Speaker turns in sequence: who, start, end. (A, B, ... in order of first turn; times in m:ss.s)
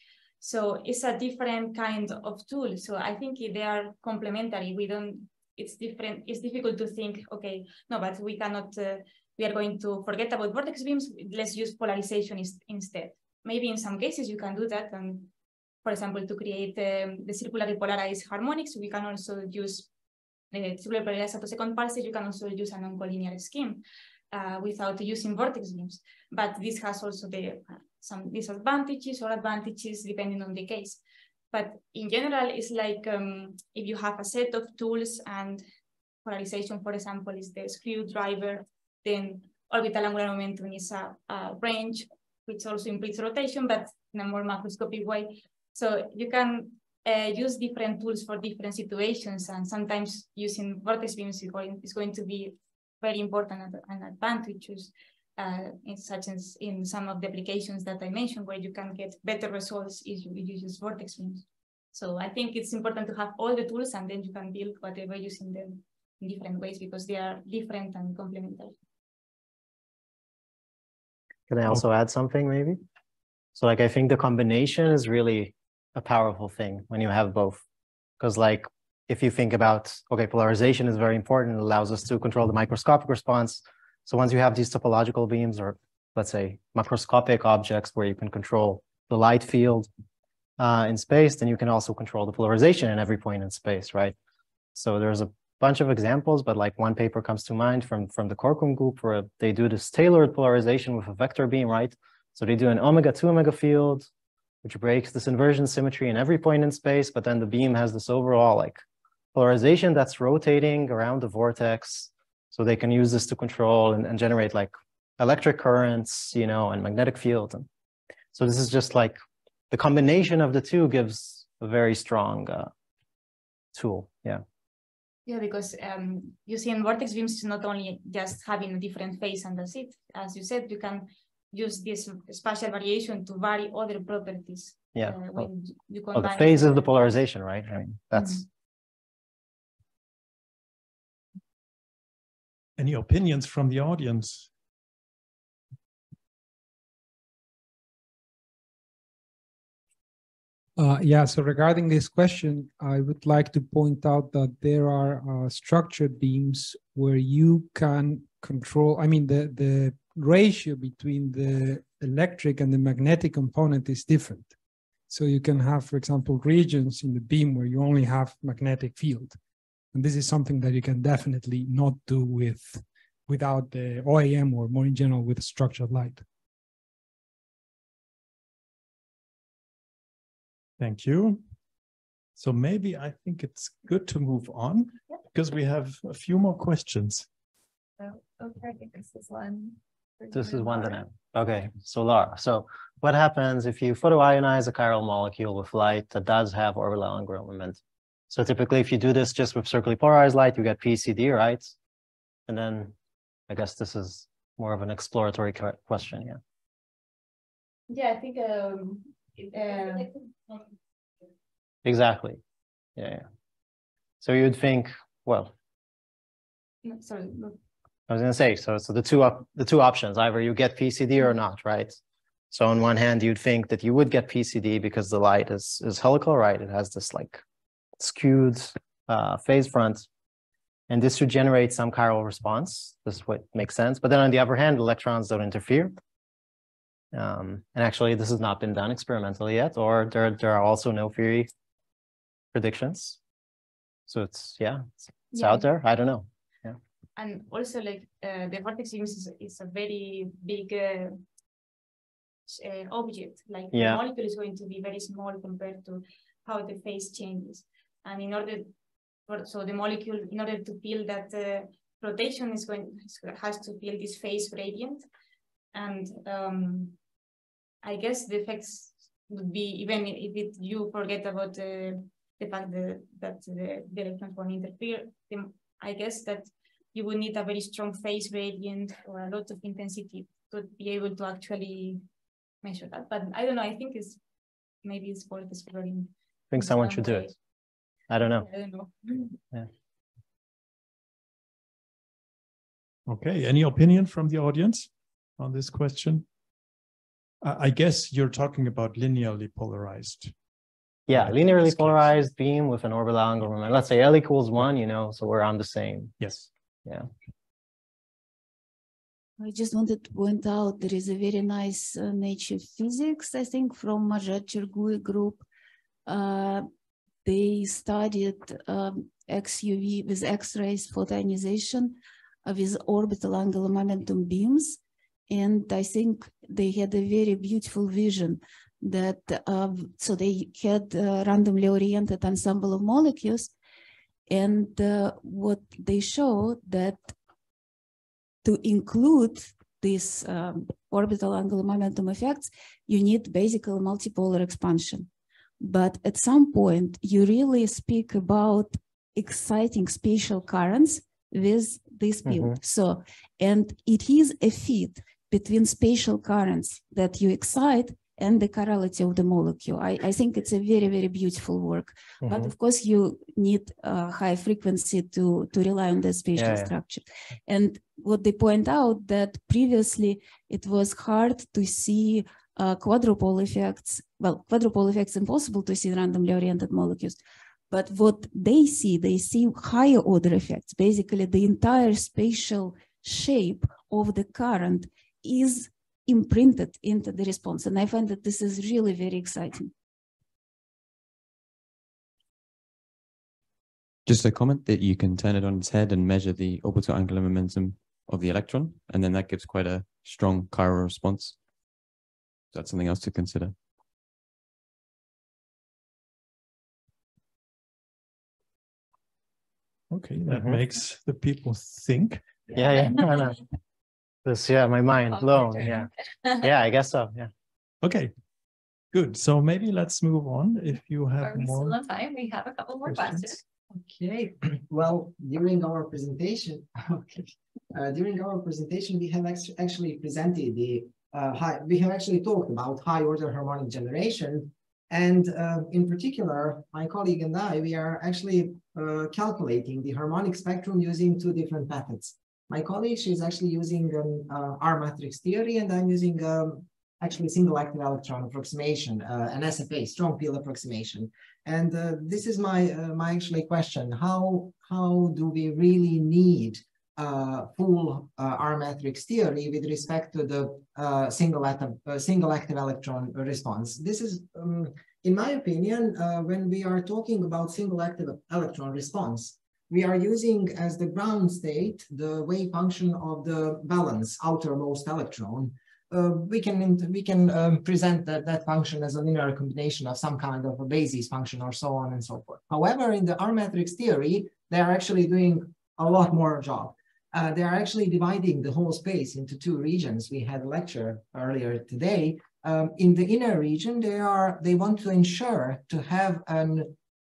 0:00.4-0:15.3 A
0:15.8-0:19.9 A
0:20.5-0:35.6 A
0:36.2-1:08.7 A
1:11.5-1:12.8 B
1:13.6-1:17.6 B
1:18.2-1:29.9 B
1:30.6-1:34.1 B
1:34.7-1:44.1 B
1:44.6-1:48.8 B
1:49.4-1:57.7 B
1:58.4-1:59.2 B
1:59.7-2:02.7 B
2:03.7-2:04.4 B
2:05.3-2:17.1 A
2:14.9-2:15.5 B
2:16.1-2:18.4 B
2:18.2-2:18.4 A
2:22.8-2:24.5 C
2:30.8-2:44.5 D
2:45.1-2:49.4 D
2:49.9-2:56.2 D
3:00.8-3:01.4 C
3:02.4-3:07.3 C
3:08.0-3:11.0 E
3:10.3-3:17.8 B
3:18.3-3:21.7 B
3:22.5-3:22.9 B
3:23.5-3:26.4 B
3:27.9-3:30.6 A
3:31.8-3:32.4 B
3:33.0-3:33.2 B
3:34.2-3:35.5 B
3:36.8-3:37.6 A
3:38.1-3:42.0 B
3:42.5-3:47.4 B
3:48.0-3:50.1 B
3:50.9-3:55.9 B
3:57.1-4:01.5 B
4:02.5-4:03.2 B
4:04.1-4:06.8 B
4:05.3-4:05.7 A
4:07.2-4:11.2 A
4:12.5-4:18.7 A
4:13.7-4:14.0 B
4:19.3-4:25.1 A
4:25.7-4:27.0 A
4:27.8-4:42.0 A
4:42.6-4:44.2 A
4:44.8-4:47.3 A
4:46.5-4:47.3 B
4:48.1-4:48.5 B
4:48.3-4:49.4 A
4:53.1-4:56.3 C
4:57.4-5:00.3 C
5:01.1-5:06.1 B
5:01.1-5:02.0 C
5:06.2-5:06.5 C
5:09.4-5:15.5 F
5:16.1-5:16.7 F
5:17.2-5:33.5 F
5:34.3-5:37.1 F
5:38.4-5:45.1 F
5:45.6-6:29.7 F
5:52.3-5:52.6 B
6:02.2-6:02.5 B
6:06.4-6:06.7 B
6:34.1-6:41.4 G
6:42.5-6:43.6 G
6:49.9-6:52.2 C
6:50.3-6:50.6 B
6:52.6-6:53.4 B
6:54.2-6:55.9 B
6:55.1-6:56.4 E
6:56.4-6:57.3 B
6:57.8-6:58.1 C
6:58.9-7:01.8 C
7:01.2-7:03.4 E
7:02.8-7:03.4 C
7:03.7-8:16.7 H